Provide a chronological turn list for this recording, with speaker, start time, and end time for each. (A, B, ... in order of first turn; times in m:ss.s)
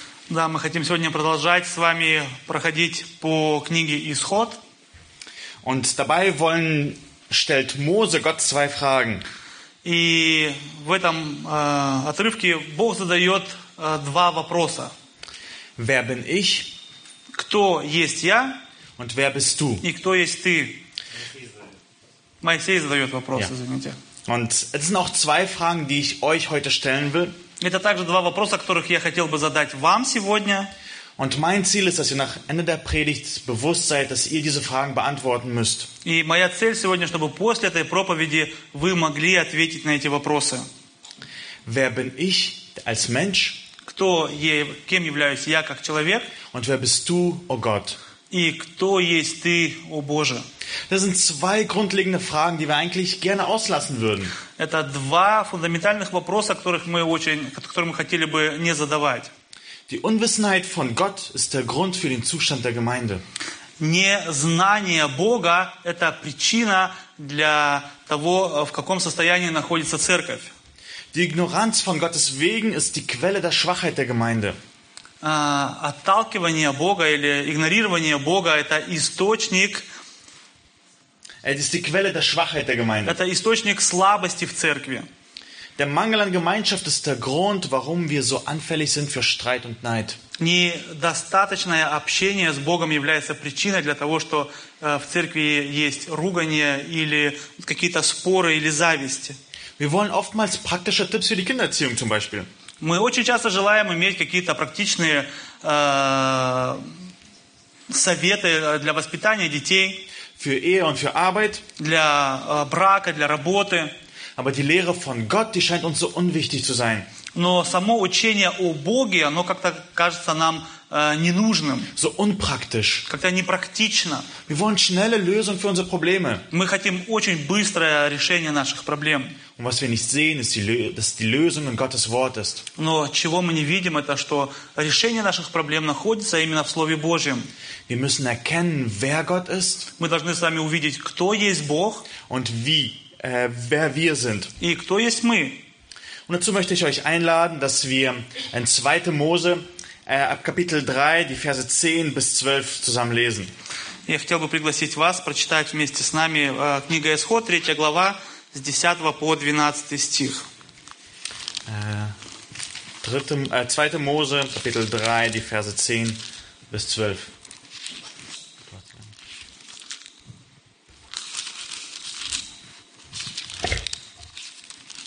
0:00.3-0:04.6 A
0:05.6-0:09.3 B
0:09.8-0:14.9 A
0:15.8-0:16.7 B
0:17.3-0:18.6 A
0:19.0-0:19.9 B
0:19.8-0:20.8 A
0:22.4-0:24.0 A
0:24.3-0:27.4 B
0:27.6-0:30.7 A
0:31.2-0:35.9 B
0:36.0-0:40.6 A
0:41.6-0:43.7 B
0:43.8-0:46.3 A
0:46.5-0:48.0 B
0:48.3-0:50.5 A
0:50.9-0:54.4 B
0:54.6-0:59.3 A
0:59.9-1:03.2 B
1:03.8-1:10.5 A
1:11.1-1:14.6 B
1:15.2-1:19.9 A
1:21.4-1:23.2 B
1:23.1-1:25.1 A
1:25.8-1:30.2 B
1:30.4-1:39.4 A
1:39.8-1:42.5 B
1:42.8-1:46.9 A
1:47.9-1:50.1 A
1:50.4-1:51.6 B
1:51.8-1:54.0 A
1:54.4-1:57.1 B
1:57.3-2:01.9 A
2:02.0-2:03.1 B
2:03.1-2:04.3 A
2:04.5-2:06.4 B
2:06.5-2:09.4 A
2:09.6-2:12.6 B
2:12.8-2:17.5 A
2:17.9-2:19.9 B
2:20.0-2:22.1 A
2:22.2-2:24.5 B
2:24.6-2:25.6 A
2:26.3-2:33.5 B
2:34.1-2:40.5 A
2:41.7-2:42.2 B
2:43.0-2:47.3 B
2:48.7-2:49.1 B